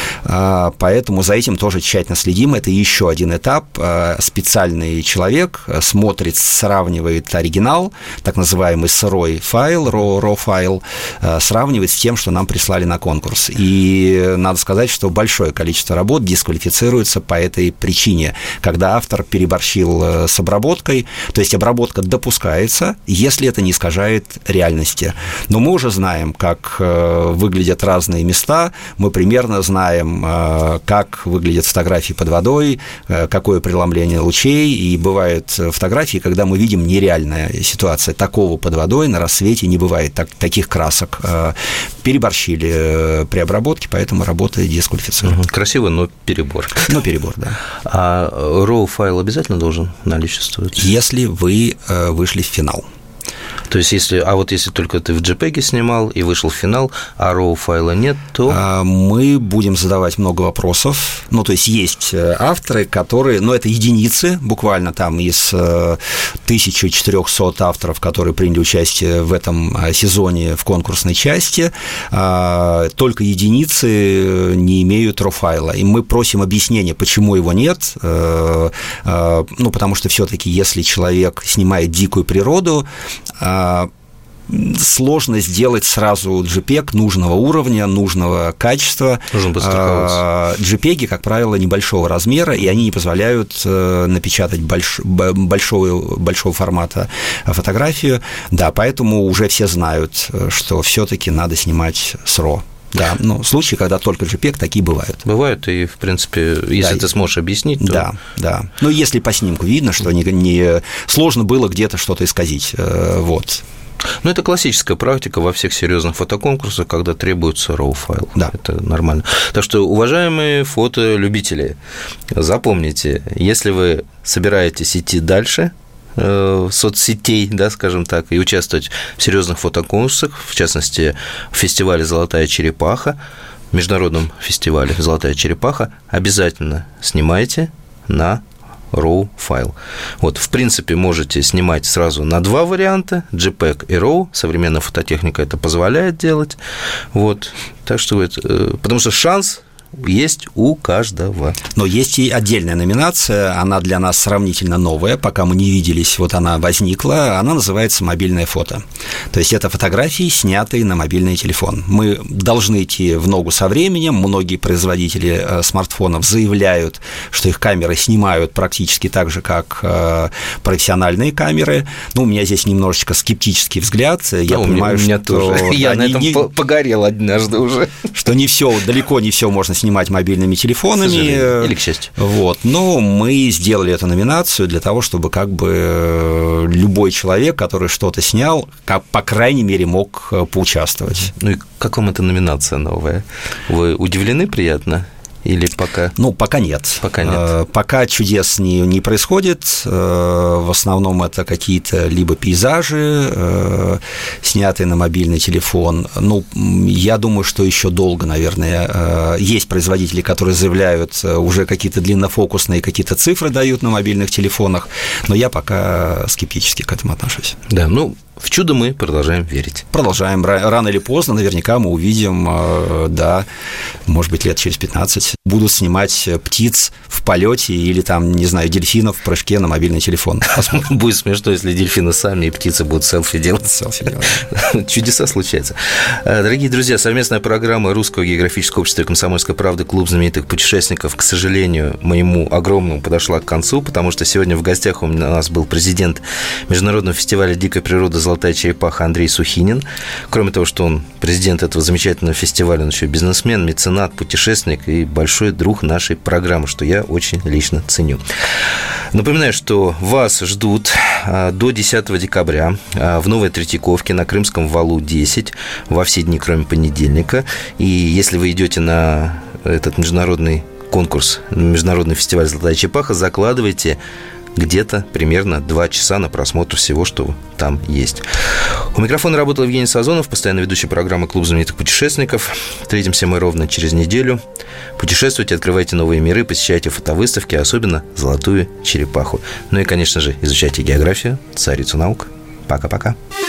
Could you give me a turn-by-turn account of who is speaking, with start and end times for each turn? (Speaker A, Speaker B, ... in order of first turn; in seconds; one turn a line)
Speaker A: 0.2-45.4
Speaker B: 45.2-47.0
Speaker A: 46.8-47.6
Speaker B: 47.9-50.9
Speaker A: 50.8-52.8
Speaker B: 53.7-58.6
Speaker A: 58.5-82.8
Speaker A: 83.4-83.9
Speaker A: 84.5-105.2
Speaker B: 89.3-90.2
Speaker B: 105.2-108.1
Speaker A: 106.8-107.0
Speaker A: 107.8-113.6
Speaker B: 114.2-121.8
Speaker B: 122.3-133.2
Speaker B: 133.7-146.6
Speaker B: 147.1-151.6
Speaker A: 151.7-176.5
Speaker B: 174.5-178.1
Speaker A: 178.2-191.3
Speaker B: 181.0-182.1
Speaker B: 191.4-196.2
Speaker A: 196.2-217.6
Speaker B: 197.0-197.5
Speaker B: 217.7-219.8
Speaker A: 219.9-223.4
Speaker A: 224.1-230.8
Speaker B: 230.5-233.8
Speaker A: 233.6-234.5
Speaker B: 234.5-274.0
Speaker B: 274.5-284.4
Speaker B: 285.0-293.1